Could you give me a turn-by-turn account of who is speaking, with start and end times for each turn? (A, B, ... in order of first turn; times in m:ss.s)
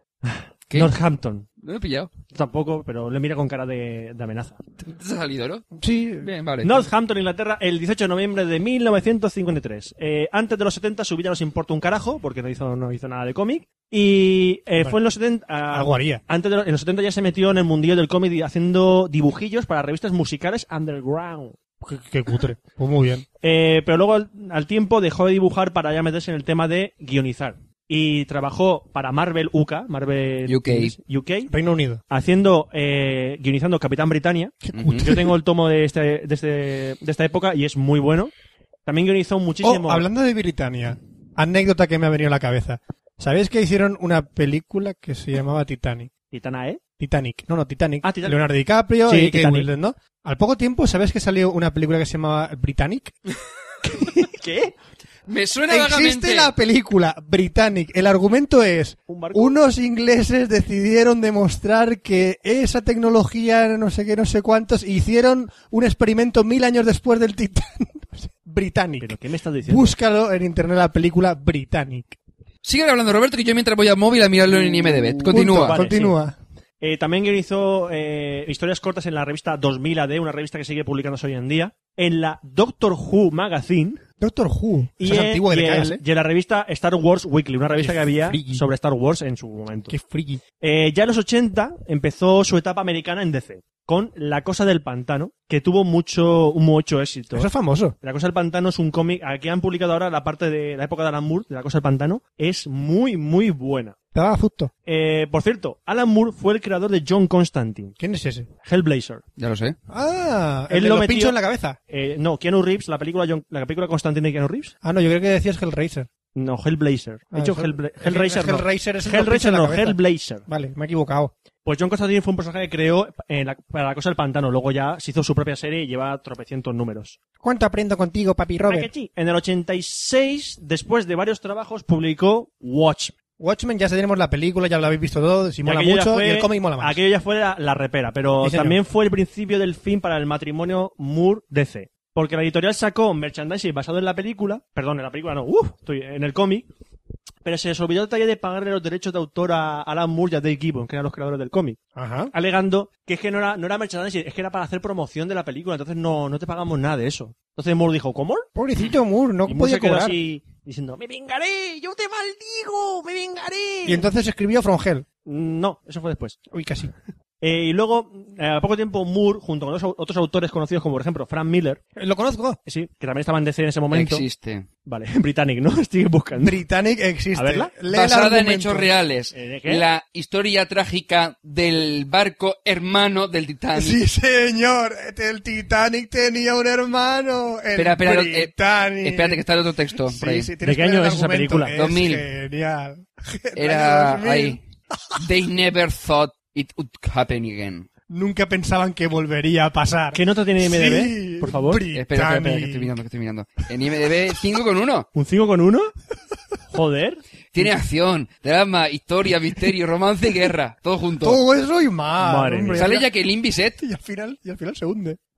0:00.2-0:01.5 A
0:00.7-0:01.0 B
0:01.6-0:02.1 B
0:02.3-0:04.6 A
0:04.9-0:05.7 B
0:05.8-0:06.3 C
0:06.2-0:06.9 B
0:06.6-0:21.6 A
0:15.7-0:16.2 C
0:21.8-0:23.2 C
0:23.4-0:31.5 A
0:30.5-0:31.0 B
0:31.5-0:32.0 C
0:32.1-0:38.3 A
0:34.6-0:35.3 C
0:34.7-0:35.2 B
0:38.8-0:40.0 A
0:39.6-0:46.1 C
0:46.3-0:46.8 A
0:47.0-0:53.1 C
0:48.0-0:48.4 A
0:49.0-0:49.7 A
0:53.8-0:54.8 A
0:55.3-0:56.5 B
0:55.7-1:09.2 C
0:59.1-0:59.6 A
1:09.0-1:09.9 A
1:09.7-1:12.2 C
1:12.6-1:15.9 B
1:14.5-1:16.2 A
1:15.3-1:16.4 C
1:16.8-1:24.0 A
1:24.2-1:26.0 C
1:25.0-1:30.0 A
1:27.7-1:28.6 C
1:29.9-1:30.4 C
1:30.6-1:37.5 A
1:37.3-1:37.9 C
1:38.0-1:44.0 A
1:44.1-1:44.7 C
1:44.8-1:48.0 A
1:48.0-1:48.5 C
1:48.6-1:49.2 A
1:49.4-1:49.8 B
1:49.9-1:51.8 C
1:50.7-1:51.4 A
1:51.9-1:54.7 A
1:54.8-1:56.1 C
1:56.3-2:00.4 A
1:57.3-2:01.3 C
2:01.6-2:07.2 A
2:07.4-2:08.9 C
2:08.6-2:13.1 A
2:13.4-2:17.0 C
2:15.6-2:26.7 A
2:18.4-2:18.8 C
2:27.4-2:31.8 A
2:31.9-2:32.3 C
2:32.3-2:38.5 A
2:38.5-2:40.2 C
2:39.5-2:44.1 A
2:43.8-2:45.0 C
2:45.2-2:46.4 A
2:46.5-2:46.9 C
2:47.4-2:51.8 A
2:52.0-2:52.6 C
2:52.6-2:54.2 A
2:53.9-2:54.7 B
2:54.8-2:56.6 A
2:56.4-2:58.9 C
2:57.3-2:57.7 A
2:57.9-3:04.0 B
2:59.3-2:59.8 A
3:03.7-3:09.4 C
3:07.7-3:10.5 B
3:10.0-3:14.6 C
3:10.6-3:11.7 A
3:11.7-3:12.2 B
3:13.6-3:14.6 B
3:15.2-3:17.9 B
3:18.1-3:22.9 C
3:20.1-3:21.8 A
3:21.9-3:25.1 B
3:25.1-3:25.9 A
3:26.7-3:27.2 A
3:27.5-3:31.4 B
3:31.2-3:33.1 C
3:32.2-3:32.9 A
3:32.8-3:33.8 B
3:33.8-3:35.2 C